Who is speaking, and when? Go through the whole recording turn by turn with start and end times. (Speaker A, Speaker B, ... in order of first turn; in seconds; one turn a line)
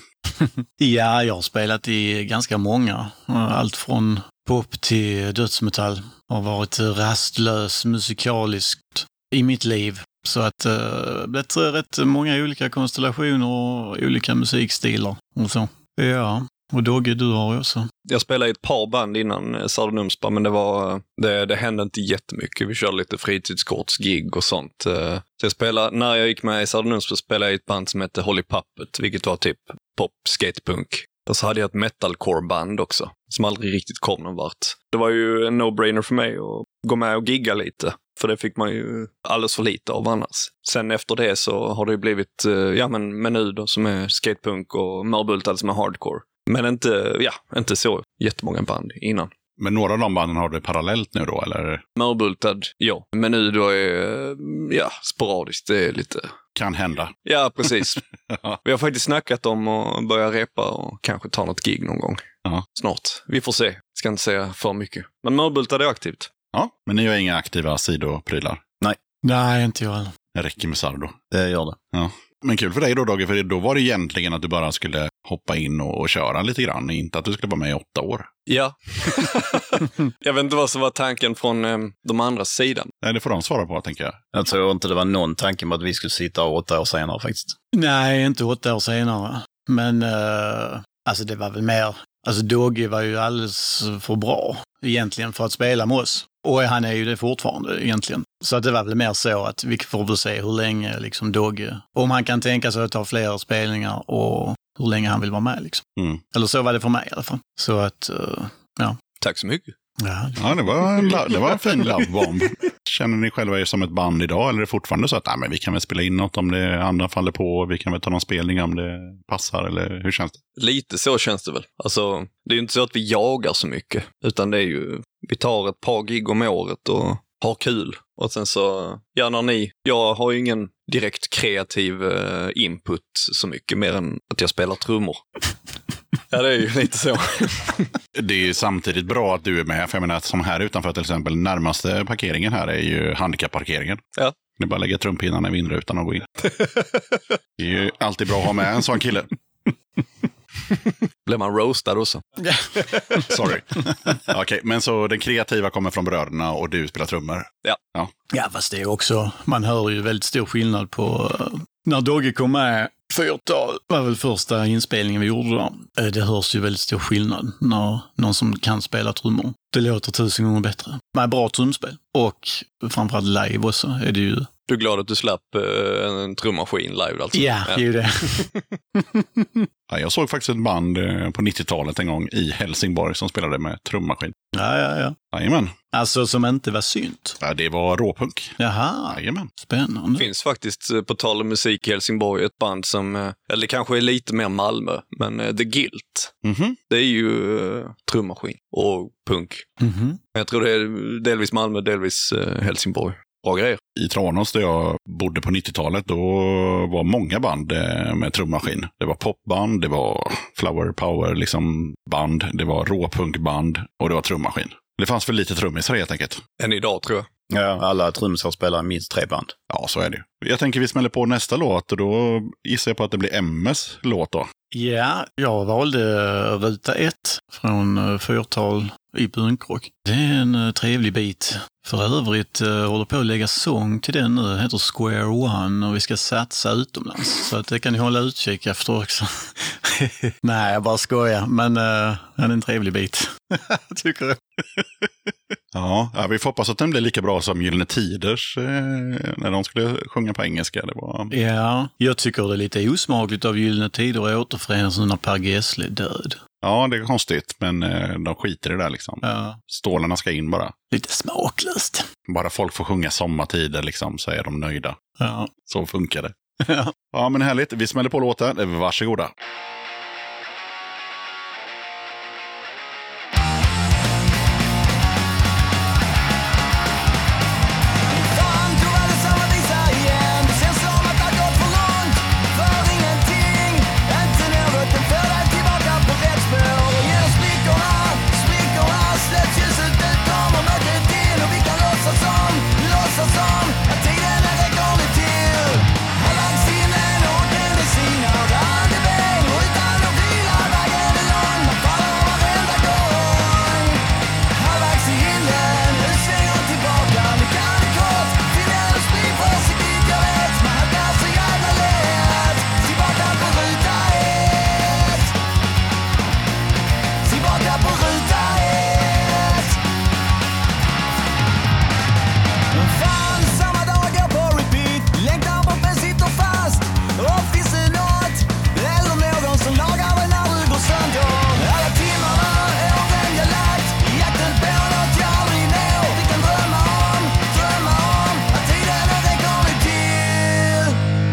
Speaker A: 0.4-17.9
Speaker B: 18.1-49.3
Speaker C: 49.6-51.8
Speaker B: 52.0-56.3
Speaker C: 56.6-57.2
Speaker B: 57.3-58.0
Speaker C: 57.7-58.6
Speaker B: 58.6-62.2
Speaker B: 62.8-66.3
Speaker C: 66.5-68.6
Speaker A: 69.2-70.1
Speaker C: 70.3-71.1
Speaker D: 71.3-71.8
Speaker C: 71.9-78.3
Speaker B: 78.5-82.9
Speaker C: 83.0-84.2
Speaker D: 84.3-87.5
Speaker A: 87.7-109.0
Speaker B: 109.2-109.8
Speaker A: 110.0-111.3
Speaker C: 110.4-120.4
Speaker B: 120.6-135.2
Speaker B: 136.3-137.9
Speaker C: 138.1-144.0
Speaker C: 144.6-146.3
Speaker B: 146.4-147.2
Speaker C: 147.6-149.3
Speaker B: 150.7-152.2
Speaker A: 152.4-153.2
Speaker B: 152.8-153.2
Speaker C: 153.3-158.1
Speaker A: 158.3-174.5
Speaker B: 174.7-177.8
Speaker A: 177.3-179.6
Speaker B: 178.4-178.6
Speaker C: 179.9-184.3
Speaker A: 184.5-185.2
Speaker C: 185.3-185.7
Speaker A: 185.9-187.4
Speaker C: 187.4-188.6
Speaker A: 188.6-190.3
Speaker C: 189.1-189.5
Speaker B: 190.2-196.3
Speaker C: 196.4-196.8
Speaker B: 196.9-199.7
Speaker A: 199.8-200.2
Speaker B: 200.3-203.8
Speaker C: 204.0-216.4
Speaker B: 216.6-217.3
Speaker D: 217.5-219.5
Speaker C: 219.7-224.5
Speaker A: 224.7-244.4
Speaker C: 245.7-251.3
Speaker A: 251.3-256.4
Speaker C: 256.6-260.7
Speaker A: 259.2-259.6
Speaker A: 260.9-262.1
Speaker C: 262.3-265.0
Speaker A: 265.2-265.5
Speaker C: 265.7-266.3
Speaker A: 266.6-266.9
Speaker C: 267.1-269.3
Speaker E: 278.1-315.4
Speaker E: 317.2-319.8
Speaker E: 322.8-341.0